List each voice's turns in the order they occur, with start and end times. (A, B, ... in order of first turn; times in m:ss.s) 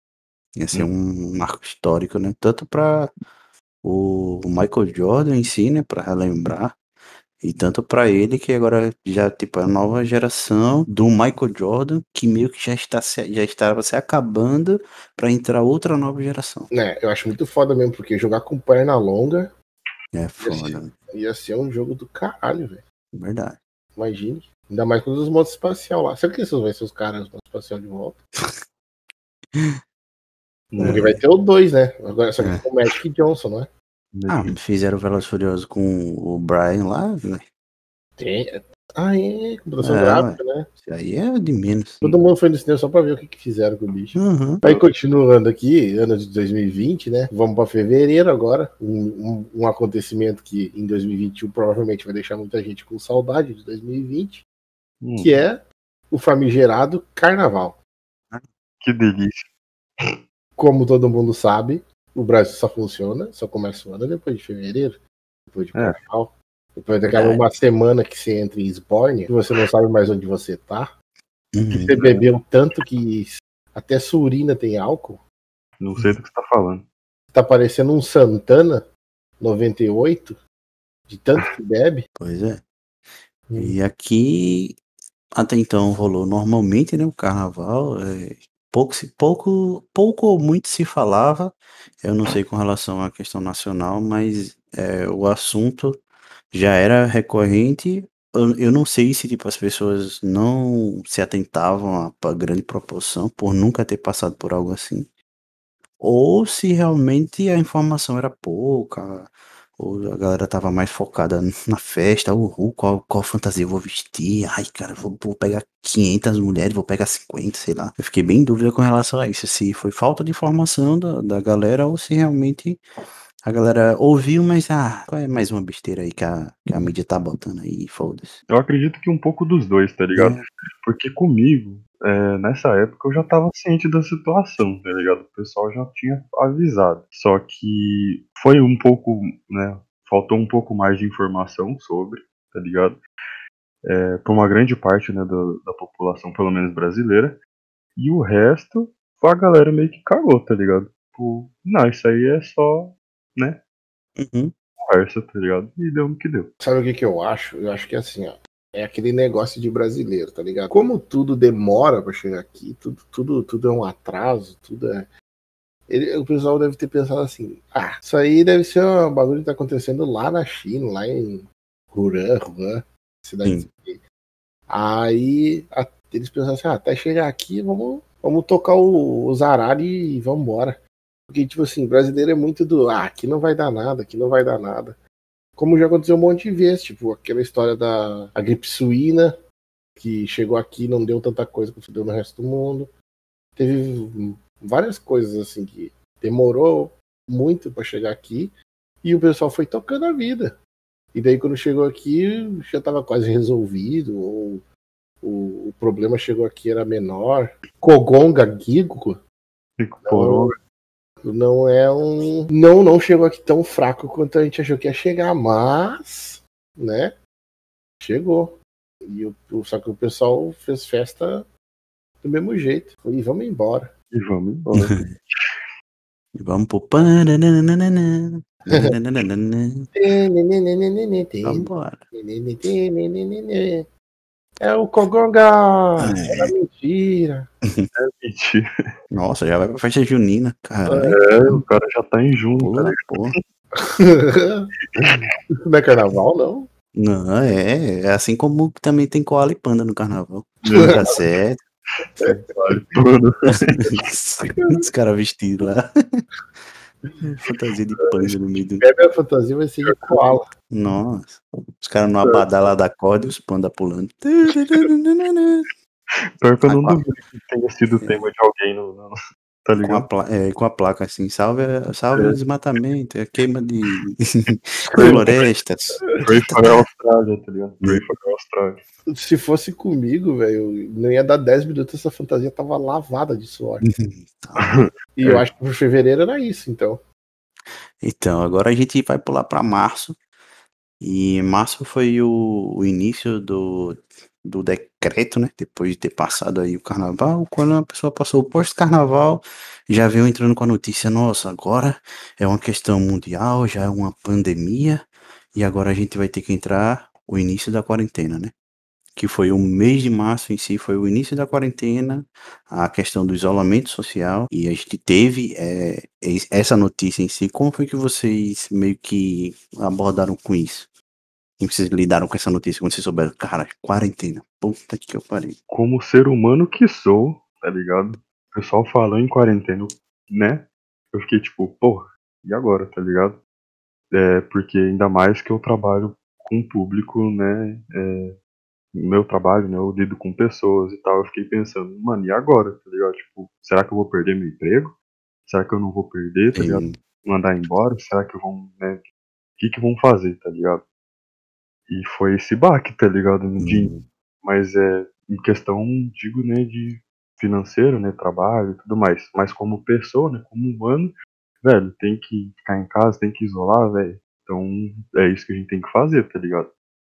0:00.6-0:03.1 A
0:03.8-0:06.8 A
0:07.4-0:16.7 A
0:16.7-0:19.5 B
0:20.1-0:20.9 A
0:20.4-0:22.8 B
0:23.1-0:23.6 A
0:24.0-0:28.2 B
0:30.7-0:31.2 C
0:30.8-0:31.1 A
0:30.8-0:33.7 B
0:32.4-0:32.6 A
0:34.1-0:34.5 C
0:34.3-0:37.4 A
0:38.2-0:40.7 B
0:39.8-0:42.1 A
0:42.0-0:54.4 B
0:44.1-0:44.6 A
0:55.0-0:55.4 C
0:55.2-0:57.8 B
0:58.8-0:59.5 C
1:00.6-1:10.9 B
1:05.8-1:06.0 C
1:07.1-1:07.4 A
1:11.5-1:12.0 A
1:11.7-1:15.2 B
1:15.8-1:16.9 C
1:17.3-1:18.9 B
1:19.4-1:20.4 B
1:21.1-1:22.1 B
1:22.2-1:22.6 A
1:23.5-1:23.8 B
1:23.6-1:24.8 A
1:25.4-1:45.1 A
1:46.0-2:02.8 A
2:03.4-2:08.4 A
2:08.5-2:23.0 C
2:10.1-2:10.4 A
2:23.9-2:27.4 C
2:28.0-2:33.6 C
2:34.2-2:34.5 A
2:34.8-2:36.5 C
2:36.6-2:45.1 B
2:45.9-2:54.0 B
2:54.7-3:05.0 B
3:05.6-3:09.3 B
3:10.0-3:12.9 B
3:13.6-3:20.6 B
3:21.1-3:24.6 B
3:25.2-3:29.2 B
3:29.8-3:30.5 C
3:30.0-3:30.5 B
3:31.2-3:37.1 B
3:38.0-3:41.5 B
3:42.2-3:43.9 B
3:44.1-3:45.6 C
3:44.8-3:45.1 A
3:46.4-3:49.9 A
3:50.0-3:53.9 B
3:51.4-3:52.0 A
3:54.6-3:57.5 B
3:56.0-3:56.5 A
3:58.0-3:58.6 C
3:59.1-4:01.2 A
4:00.9-4:01.2 B
4:01.1-4:03.4 C
4:02.6-4:03.4 A
4:04.0-4:06.7 B
4:07.0-4:11.6 A
4:10.6-4:11.1 C
4:10.7-4:11.0 B
4:12.2-4:13.9 C
4:12.2-4:12.8 B
4:13.5-4:16.2 A
4:17.4-4:18.9 A
4:18.0-4:18.3 C
4:18.8-4:20.5 B
4:19.9-4:20.2 C
4:20.7-4:25.7 A
4:26.4-4:30.0 C
4:26.6-4:27.0 A
4:29.8-4:36.7 A
4:35.0-4:35.5 C
4:36.2-4:38.8 C
4:39.1-4:43.9 B
4:43.8-4:44.8 A
4:44.6-4:45.4 C
4:45.2-4:47.0 B
4:48.0-4:50.2 A
4:51.0-5:08.5 A
5:09.2-5:20.9 A
5:21.6-5:25.6 A
5:25.7-5:33.4 C
5:34.1-5:38.4 C
5:38.9-5:49.0 C
5:46.5-5:47.0 A
5:49.6-5:50.9 C
5:51.9-6:06.7 C
5:53.6-5:54.0 A